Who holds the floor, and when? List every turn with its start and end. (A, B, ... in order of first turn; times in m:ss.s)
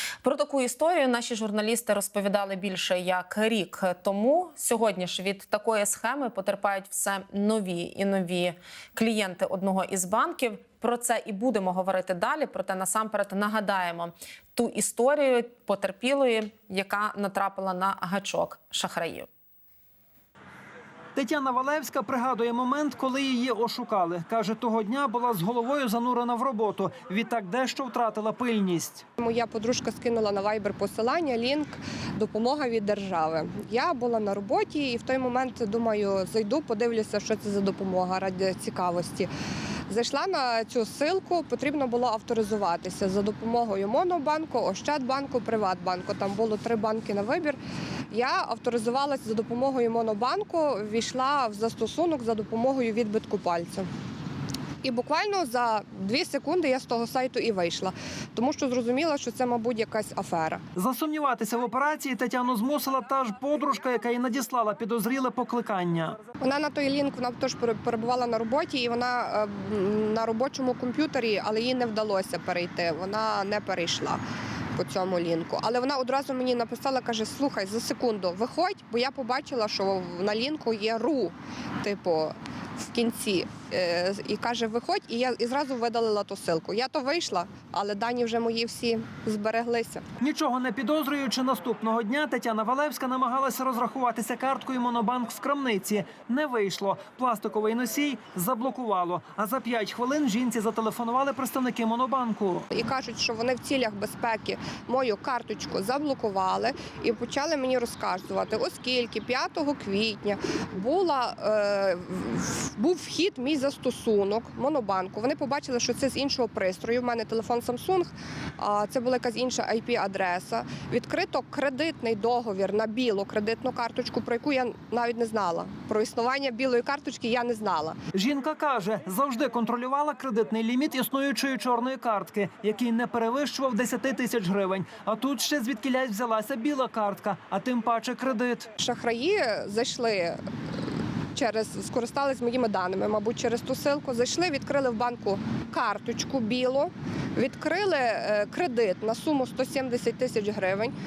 0:00.2-0:19.3 A
0:21.2-0:29.0 B
0:29.2-0:39.3 C
0:39.9-0:47.6 C
0:48.1-0:53.9 C
0:54.8-1:00.6 C
1:00.8-1:06.2 B
1:06.4-1:14.2 C
1:14.8-1:30.0 C
1:30.2-1:42.7 B
1:42.7-2:08.0 C
2:08.1-2:18.7 B
2:18.8-2:20.4 C
2:21.3-2:30.9 C